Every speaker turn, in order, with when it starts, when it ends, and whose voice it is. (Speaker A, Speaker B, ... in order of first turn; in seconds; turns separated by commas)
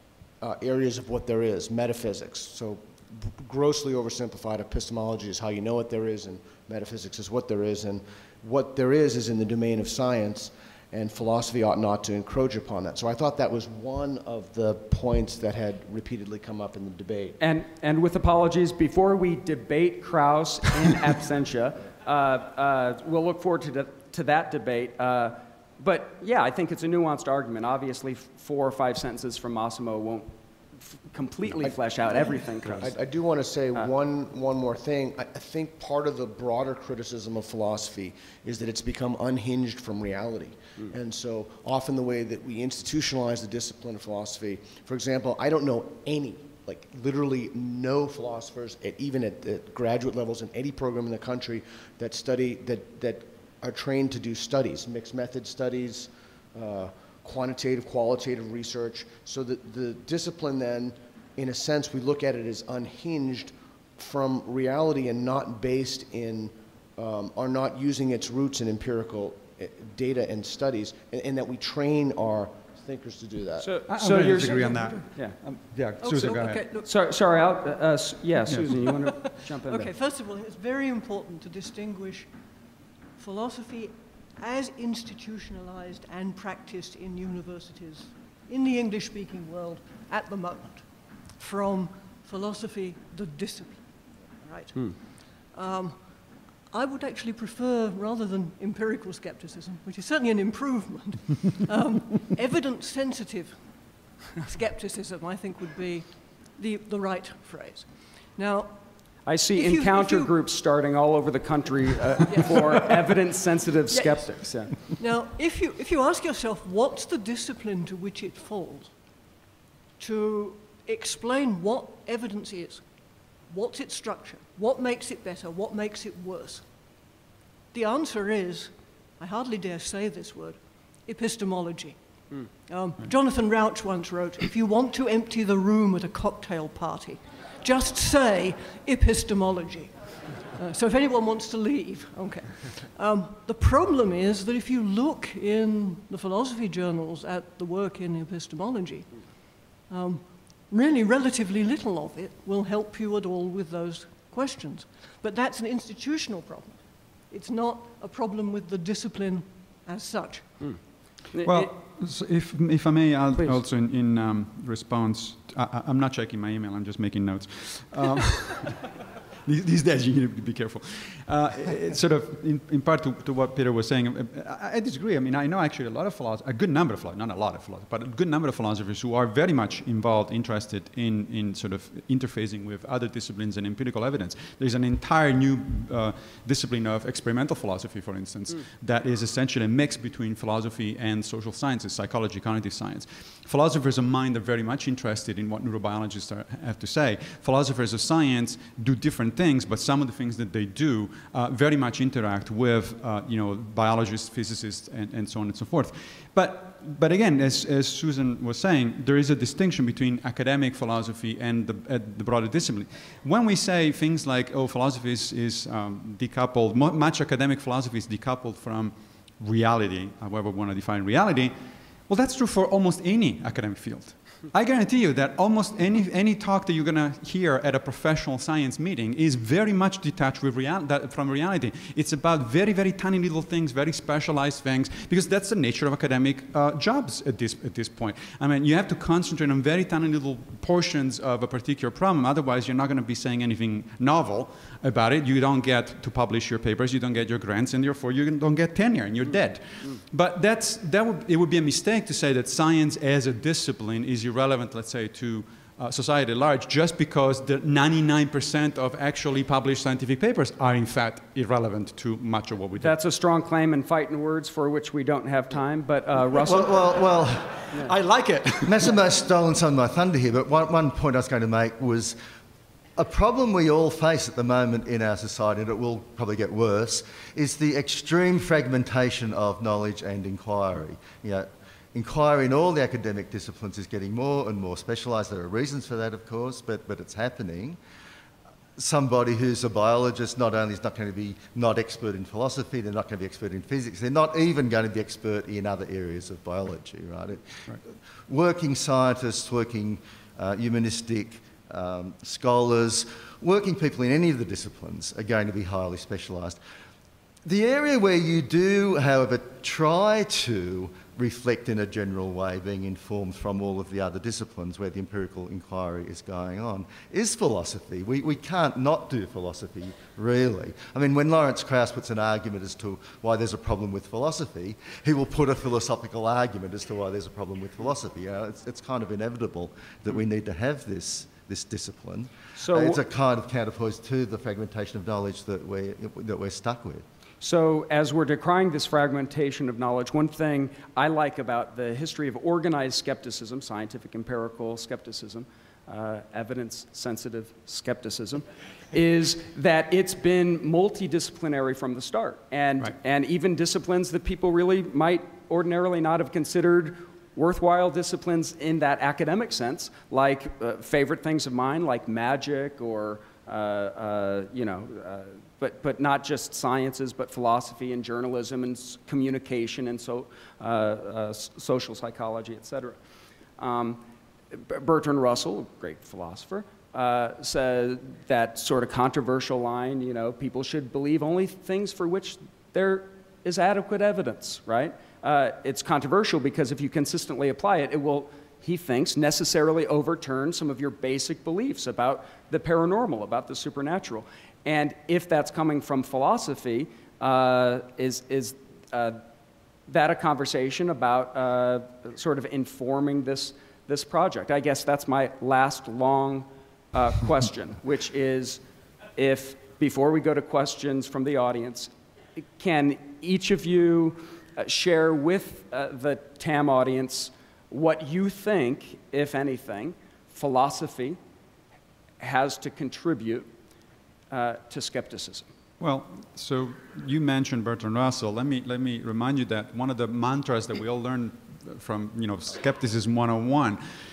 Speaker A: 0.4-17.4, Speaker B: 17.4-33.0, Speaker A: 31.6-73.7, Speaker B: 73.6-75.4, Speaker C: 73.9-76.6, Speaker D: 74.2-75.0, Speaker D: 76.0-76.9, Speaker B: 76.8-79.9, Speaker D: 78.8-82.3, Speaker D: 83.2-110.3, Speaker B: 109.2-114.8, Speaker D: 112.2-112.6, Speaker D: 113.9-118.9, Speaker D: 120.0-122.9, Speaker D: 123.4-126.7, Speaker D: 127.7-160.8, Speaker B: 160.6-161.7, Speaker C: 161.4-221.5, Speaker C: 222.1-262.9, Speaker B: 262.8-266.8, Speaker E: 266.3-267.6, Speaker C: 267.9-268.8, Speaker E: 268.6-272.2, Speaker E: 272.9-287.8, Speaker E: 288.8-297.7, Speaker E: 298.3-306.6, Speaker E: 307.4-337.0, Speaker B: 332.6-333.0, Speaker B: 337.4-373.0, Speaker B: 373.6-399.2, Speaker B: 399.9-408.6, Speaker B: 409.1-411.9, Speaker B: 412.6-421.2, Speaker B: 422.2-423.5, Speaker B: 424.3-425.4, Speaker C: 425.8-433.8